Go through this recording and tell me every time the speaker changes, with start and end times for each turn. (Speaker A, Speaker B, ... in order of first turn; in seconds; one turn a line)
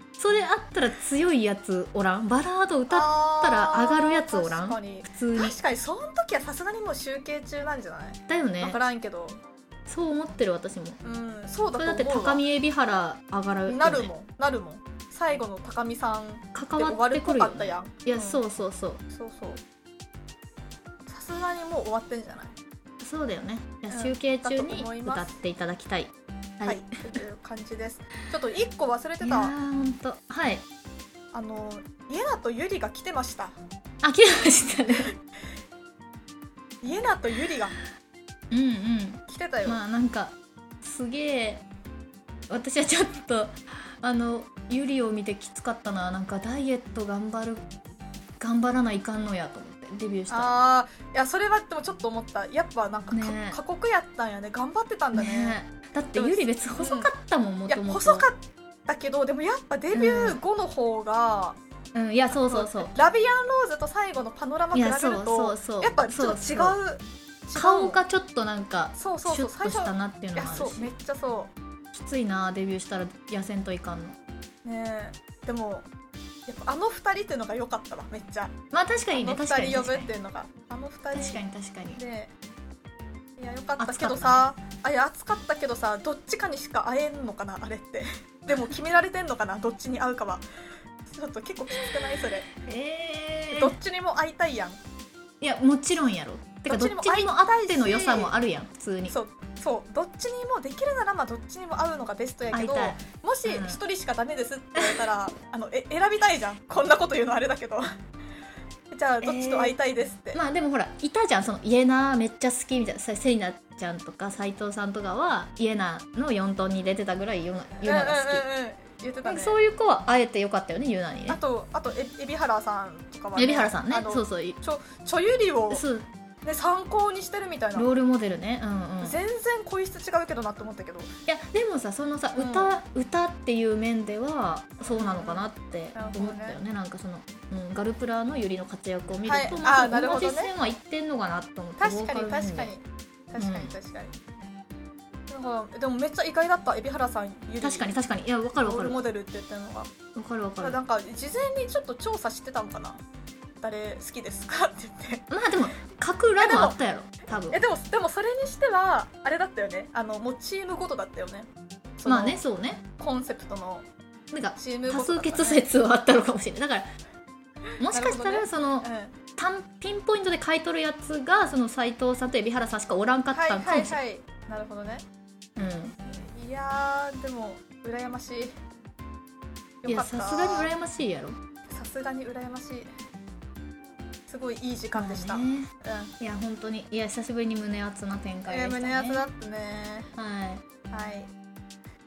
Speaker A: 0.2-5.6
Speaker B: 2.9-9.4
Speaker A: 8.3-8.8
Speaker A: 9.9-11.0
Speaker B: 11.0-12.4
Speaker A: 11.8-14.1
Speaker B: 13.7-18.4
Speaker A: 16.6-19.0
Speaker B: 19.1-19.6
Speaker B: 21.1-22.6
Speaker A: 23.0-26.9
Speaker B: 23.9-25.4
Speaker B: 26.6-29.6
Speaker A: 29.2-30.6
Speaker B: 31.3-33.5
Speaker A: 34.0-35.1
Speaker B: 36.8-37.8
Speaker A: 38.5-41.6
Speaker B: 39.3-39.8
Speaker A: 42.5-47.6
Speaker A: 48.4-50.5
Speaker B: 50.3-55.6
Speaker A: 53.1-53.6
Speaker A: 55.1-58.3
Speaker B: 56.1-57.1
Speaker B: 57.7-61.6
Speaker A: 59.9-60.4
Speaker A: 61.9-63.0
Speaker B: 62.3-68.0
Speaker A: 64.7-66.8
Speaker A: 67.6-70.9
Speaker B: 69.0-71.5
Speaker A: 71.9-74.2
Speaker B: 74.6-75.9
Speaker B: 76.5-78.5
Speaker A: 78.7-80.1
Speaker B: 79.1-81.4
Speaker A: 81.1-82.0
Speaker B: 82.0-82.3
Speaker B: 83.4-90.4
Speaker A: 83.8-84.5
Speaker B: 91.1-92.5
Speaker A: 92.6-93.8
Speaker B: 93.5-94.8
Speaker A: 95.4-99.1
Speaker B: 96.7-98.3
Speaker B: 99.1-107.9
Speaker A: 102.5-103.8
Speaker B: 108.9-110.4
Speaker A: 109.2-109.8
Speaker A: 110.3-118.5
Speaker B: 117.8-119.6
Speaker A: 119.2-121.4
Speaker B: 121.3-125.8
Speaker A: 123.3-124.6
Speaker A: 125.7-126.1
Speaker B: 126.5-127.9
Speaker A: 127.8-129.2
Speaker B: 129.0-131.1
Speaker A: 131.3-142.7
Speaker B: 132.3-132.7
Speaker B: 134.9-136.6
Speaker B: 139.3-140.5
Speaker B: 141.8-144.2
Speaker A: 143.4-143.7
Speaker B: 145.3-147.9
Speaker A: 147.6-149.0
Speaker B: 148.6-149.9
Speaker A: 150.1-150.8
Speaker B: 150.6-153.0
Speaker B: 153.6-155.3
Speaker A: 155.3-157.6
Speaker B: 156.4-156.8
Speaker B: 157.5-162.4
Speaker A: 162.1-162.8
Speaker B: 163.0-163.9
Speaker A: 164.3-166.9
Speaker B: 164.6-165.6
Speaker A: 167.8-174.0
Speaker B: 167.8-169.1
Speaker B: 173.3-175.1
Speaker A: 175.6-176.0
Speaker B: 176.0-178.5
Speaker B: 179.8-180.7
Speaker A: 179.9-181.4
Speaker B: 181.7-182.9
Speaker B: 184.3-186.1
Speaker A: 184.9-189.3
Speaker B: 188.5-190.1
Speaker A: 190.2-190.6
Speaker B: 190.9-191.3